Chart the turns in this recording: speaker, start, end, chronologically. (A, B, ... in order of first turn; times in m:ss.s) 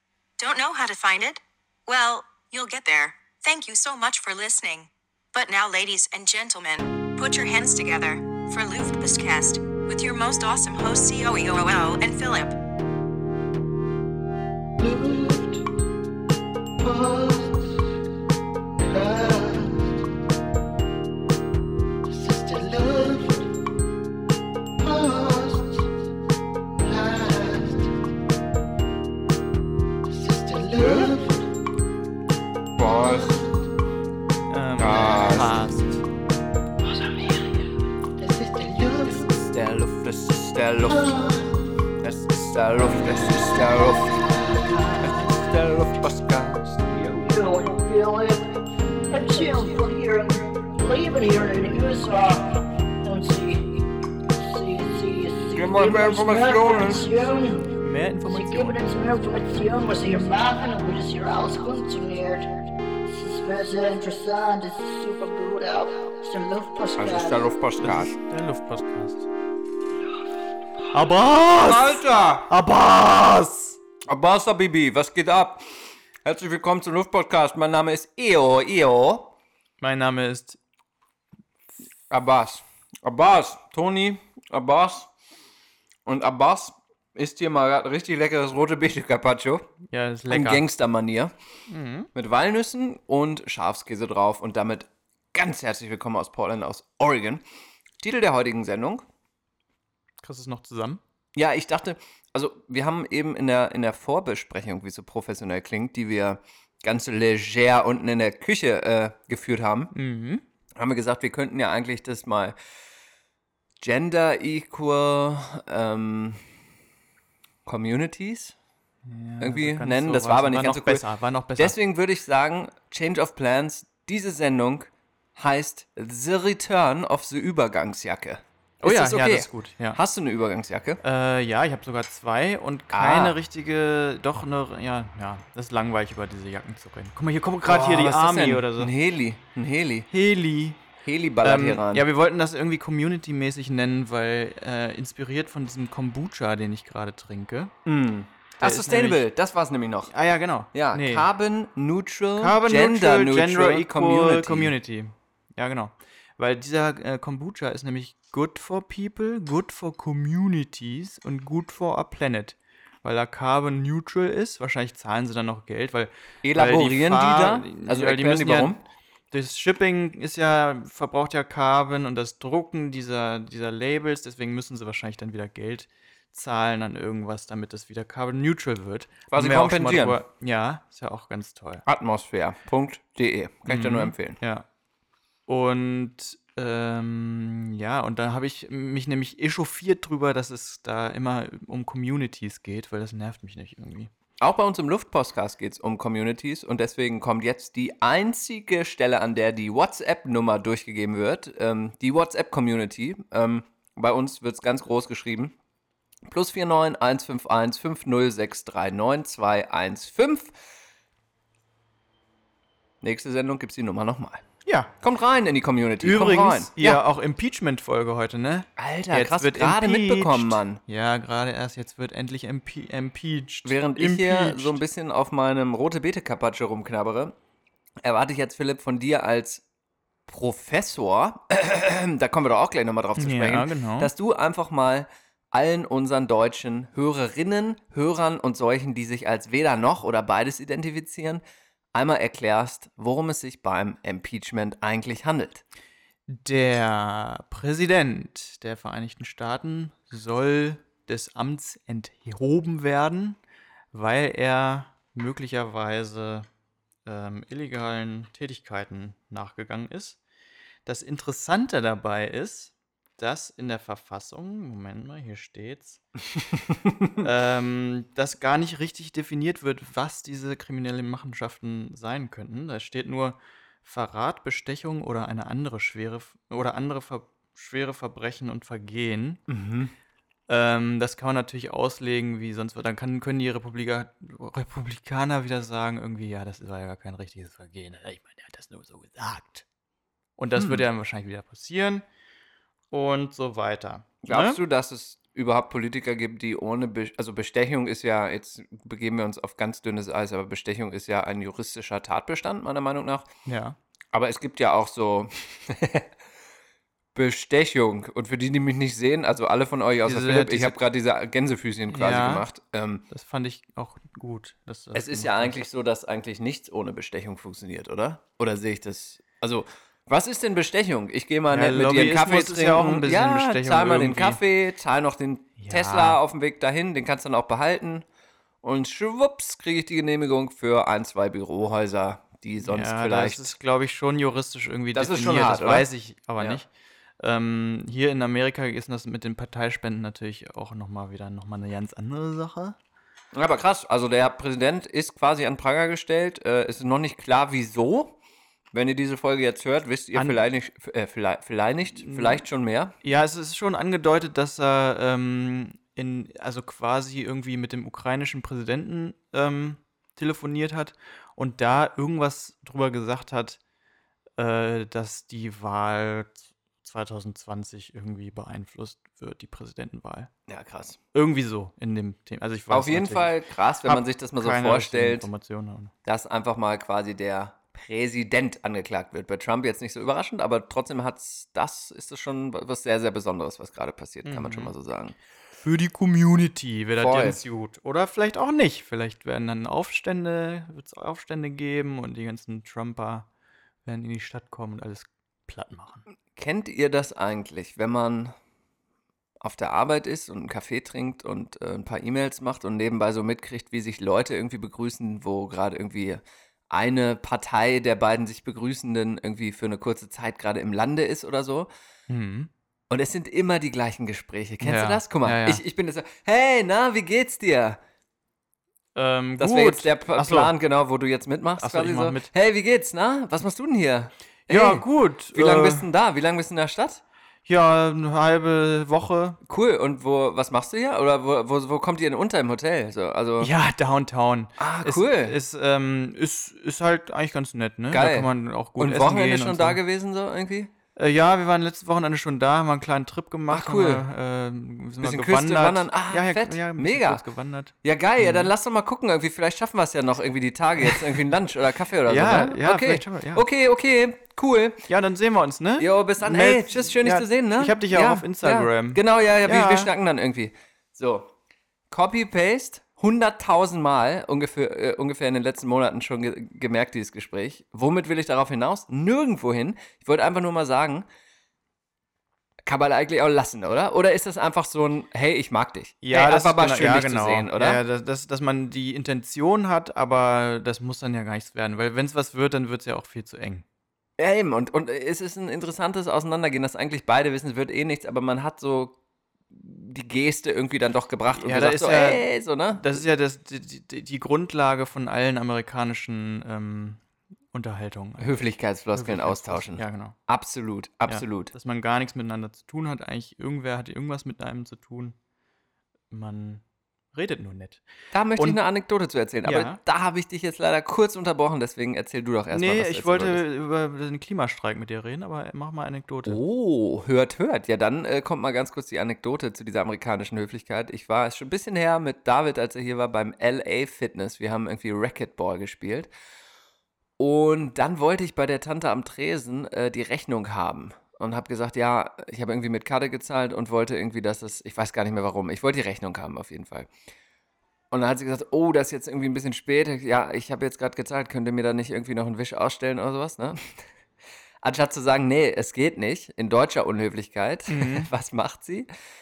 0:00.4-0:12.5 A
0:14.8-0:15.6 B
0:16.8-0:17.7 B
0:18.8-0:19.9 B
0:22.1-0:23.5 B
0:24.8-0:25.9 B
0:26.8-0:27.9 B
0:30.1-0:31.5 B
0:30.8-0:31.1 C
0:32.8-0:33.4 C
0:32.9-0:33.4 B
0:34.5-0:36.0 D
0:34.8-0:35.6 C
0:36.8-0:39.3 B
0:39.1-0:41.2 C
0:40.8-0:41.7 B
0:42.0-0:44.4 C
0:44.3-0:45.2 B
0:45.0-0:47.0 C
0:47.0-0:48.6 B
0:49.1-0:57.7 B
0:55.5-0:57.3 C
0:57.7-1:00.0 D
0:58.3-1:02.5 B
1:03.0-1:07.4 B
1:07.0-1:08.1 C
1:07.8-1:09.3 D
1:10.9-1:13.8 D
1:11.6-1:12.5 C
1:14.1-1:15.6 C
1:16.2-1:19.3 C
1:19.8-1:20.6 D
1:22.1-1:25.1 C
1:26.0-1:29.7 C
1:29.9-1:30.7 D
1:30.3-1:31.3 C
1:31.7-1:32.1 D
1:32.1-1:37.4 C
1:38.0-1:39.0 C
1:40.2-1:41.0 D
1:41.3-1:49.9 C
1:49.9-1:50.4 D
1:50.7-1:52.6 C
1:53.8-1:56.4 C
1:57.6-1:58.5 C
1:59.0-2:01.8 D
1:59.4-2:01.0 C
2:01.6-2:11.0 C
2:08.8-2:10.0 D
2:11.0-2:18.9 D
2:12.9-2:13.4 C
2:17.6-2:20.1 C
2:20.1-2:20.8 D
2:21.0-2:22.0 C
2:21.4-2:27.7 D
2:27.8-2:30.1 C
2:28.6-2:29.2 D
2:30.1-2:31.3 D
2:30.7-2:34.7 C
2:32.4-2:48.7 D
2:46.4-2:48.8 C
2:49.3-3:01.8 D
2:59.3-3:00.2 C
3:01.8-3:04.4 C
3:03.6-3:04.6 D
3:05.5-3:14.1 D
3:14.4-3:25.5 C
3:26.3-3:30.5 C
3:33.0-3:34.4 C
3:34.6-3:34.9 D
3:35.0-3:37.0 C
3:36.0-3:44.8 D
3:38.8-3:40.8 C
3:43.6-3:47.4 C
3:48.0-3:49.6 C
3:50.3-4:01.4 C
3:53.2-3:54.1 D
4:01.9-4:05.6 C
4:06.3-4:13.4 D
4:13.9-4:16.5 D
4:17.0-4:20.2 D
4:20.8-4:26.0 D
4:27.2-4:39.4 D
4:39.5-4:39.9 C
4:40.5-4:49.6 D
4:50.4-4:52.0 D
4:50.5-4:50.8 C
4:52.9-4:54.6 D
4:54.2-5:03.3 C
5:03.4-5:03.8 D
5:04.1-5:06.1 C
5:07.1-5:13.0 C
5:10.0-5:10.8 D
5:11.9-5:12.4 D
5:13.1-5:15.6 D
5:14.9-5:28.0 C
5:21.5-5:24.4 D
5:25.6-5:26.2 D
5:28.6-5:33.6 C
5:32.6-5:36.7 D
5:34.9-5:36.6 C
5:37.2-5:42.8 D
5:43.3-5:48.2 C
5:48.7-5:52.9 C
5:52.0-5:52.4 D
5:53.0-6:03.6 D
6:04.4-6:10.3 D
6:10.5-6:11.0 C
6:11.1-6:15.9 D
6:12.7-6:15.3 C
6:16.0-6:25.2 C
6:24.2-6:24.7 D
6:25.6-6:33.3 D
6:27.0-6:27.4 C
6:33.8-6:36.0 D
6:36.3-6:38.3 C
6:39.4-6:51.7 C
6:52.1-6:52.5 D
6:52.9-6:57.8 C
6:54.6-6:55.6 D
6:58.9-7:00.5 D
6:59.4-7:07.0 C
7:01.6-7:02.3 D
7:04.5-7:05.9 D
7:07.5-7:09.4 D
7:09.4-7:13.5 C
7:13.4-7:19.8 D
7:14.6-7:15.4 C
7:17.9-7:20.7 C
7:21.0-7:28.5 D
7:23.5-7:24.0 C
7:25.0-7:27.2 C
7:27.8-7:34.8 C
7:32.1-7:33.4 D
7:34.9-7:39.9 D
7:35.8-7:41.3 C
7:41.9-7:51.0 C
7:52.6-7:57.8 C
7:56.0-8:03.6 D
8:04.2-8:09.0 C
8:09.5-8:13.0 C
8:11.3-8:20.2 D
8:18.2-8:21.5 C
8:21.1-8:25.1 D
8:26.1-8:26.6 D
8:27.1-8:27.8 D
8:28.1-8:33.4 C
8:29.4-8:29.8 D
8:32.5-8:36.4 D
8:36.2-8:46.1 C
8:47.2-8:56.9 C
8:57.9-9:03.8 C
9:04.6-9:08.9 C
9:07.7-9:08.1 D